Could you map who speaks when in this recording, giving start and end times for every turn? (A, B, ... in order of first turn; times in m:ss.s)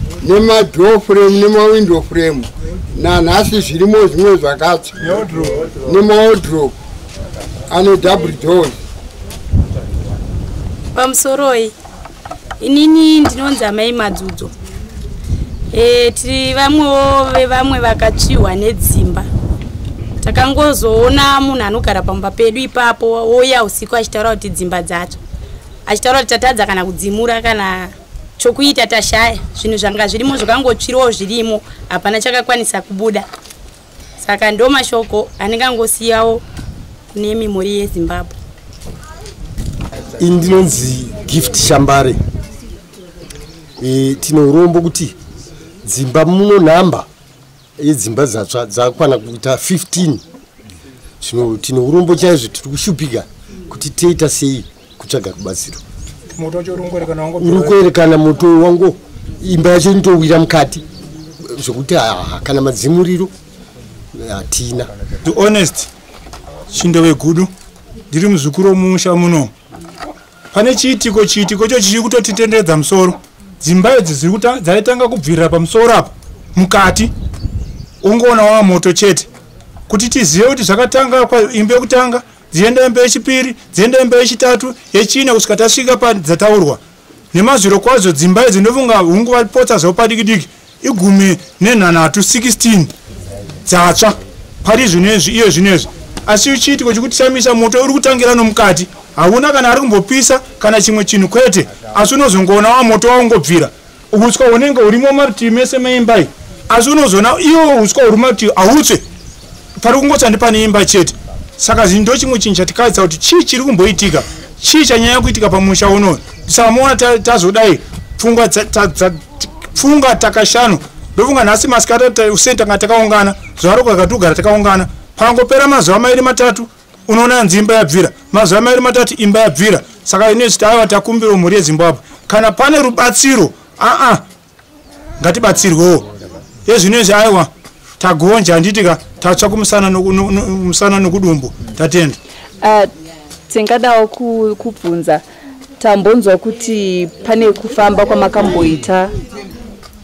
0:00.2-0:05.2 A
0:05.8-0:06.8 A
0:07.7-0:08.8 A
0:11.0-0:11.7 B
0:12.6-0:14.5 B
0:15.7-0:19.3 B
0:20.2-0:25.2 B
0:25.9-0:33.3 B
0:34.2-0:36.4 B
0:37.1-0:38.3 B
0:40.2-0:42.2 C
0:43.8-0:45.2 C
0:45.8-0:47.1 C
0:47.8-0:50.2 C
0:51.2-0:55.8 C
0:56.4-0:57.8 D
0:57.4-1:00.8 C
1:01.5-1:03.3 C
1:04.1-1:04.9 C
1:05.2-1:05.9 D
1:06.7-1:07.5 D
1:08.1-1:09.5 D
1:10.5-1:17.1 D
1:18.0-1:19.3 D
1:19.9-1:26.8 D
1:27.3-1:32.9 D
1:33.7-1:49.0 D
1:49.8-2:14.2 D
2:15.2-2:16.1 D
2:16.7-2:22.2 D
2:22.6-2:22.9 E
2:23.5-2:25.2 E
2:25.8-2:29.1 E